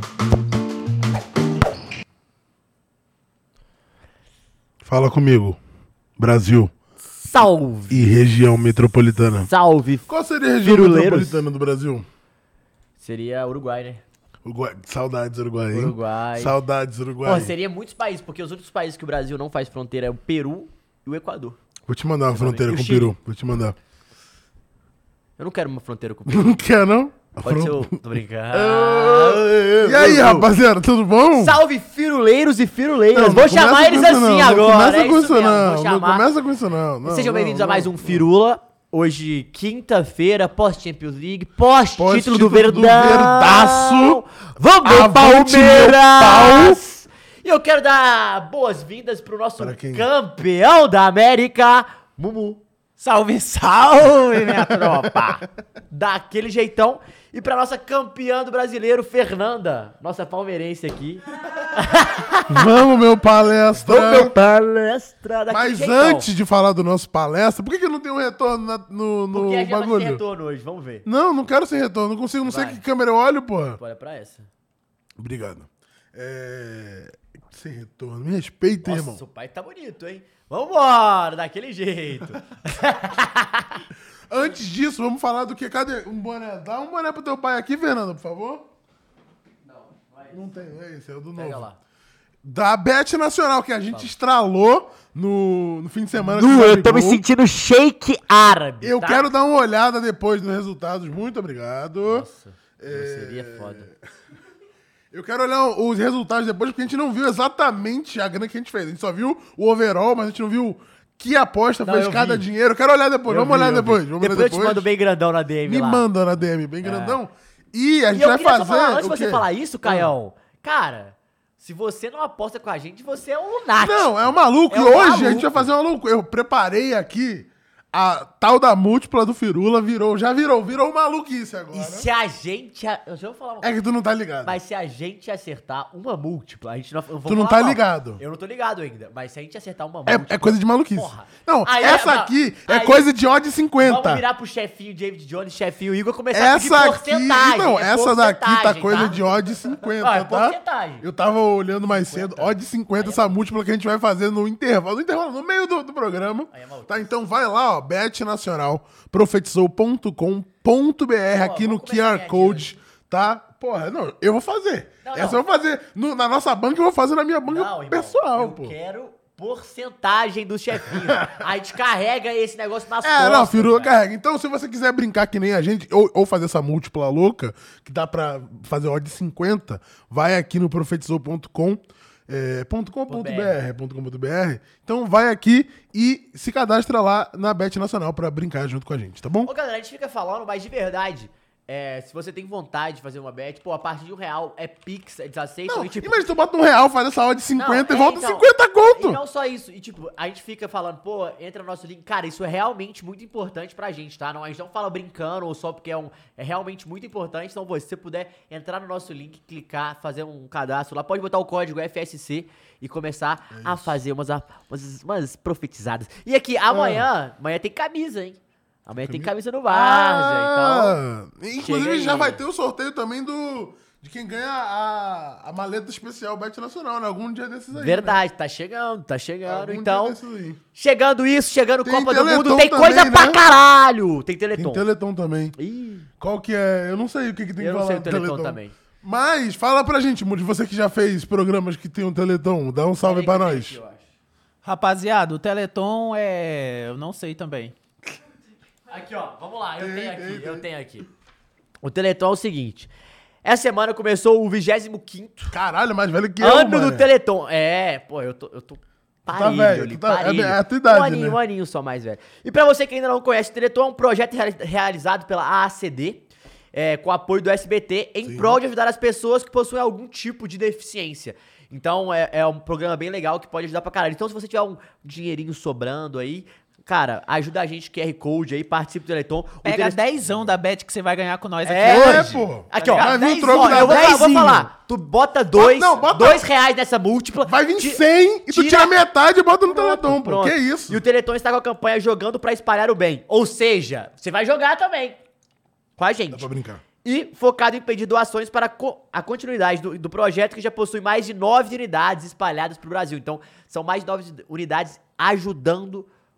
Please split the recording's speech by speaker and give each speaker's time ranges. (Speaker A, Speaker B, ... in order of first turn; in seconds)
Speaker A: 4.8-5.6, 6.2-6.7, 7.9-9.5, 10.1-12.1, 14.4-17.5, 21.9-23.8, 26.3-31.6, 33.1-38.2, 42.0-44.2, 44.8-46.8, 49.6-50.1, 54.8-55.1, 62.5-64.3, 65.5-70.2, 71.0-73.8, 75.2-79.2, 84.3-88.7, 90.3-91.7, 92.4-97.2, 98.8-102.3, 102.8-104.0, 105.1-114.9, 115.7-120.1, 123.8-132.1, 133.6-134.6, 137.2-138.2, 140.1-144.2, 146.3-168.7, 170.9-171.3, 173.0-189.5, 195.7-199.2, 213.5-213.9, 216.7-217.1, 219.0-228.2, 229.4-230.6, 231.8-233.4, 234.5-235.6, 236.2-243.8, 249.8-250.7, 255.5-257.1, 259.3-261.4, 268.2-268.6, 281.8-284.5, 285.5-286.4, 287.4-291.0, 296.3-296.8
Speaker B: 7.2-8.0, 9.4-10.1, 10.6-11.4, 13.0-14.0, 15.7-16.6, 17.2-21.6, 22.3-23.1, 25.4-26.6, 27.4-30.5, 31.4-36.2, 37.0-52.6, 55.9-62.7, 63.8-66.3, 69.3-71.0, 72.5-72.8, 73.8-74.5, 78.8-83.8, 89.6-90.4, 91.3-91.8, 96.2-99.3, 102.0-103.9, 111.8-112.5, 113.3-116.0, 116.8-117.2, 118.1-125.7, 131.7-133.7, 134.4-143.1, 143.8-151.0, 151.9-153.3, 156.5-157.1, 161.3-162.7, 165.0-165.4, 167.5-173.9, 183.1-183.5, 189.4-196.2, 197.6-221.0, 221.6-222.4, 227.7-230.2, 230.8-234.8, 235.6-236.1, 237.6-238.7, 243.0-244.1, 248.9-251.1, 251.8-252.9, 253.4-255.6, 256.4-280.0, 281.6-289.0, 289.6-295.2, 296.0-296.5, 297.0-306.1
Speaker C: 53.0-55.4, 244.6-247.7, 279.6-284.7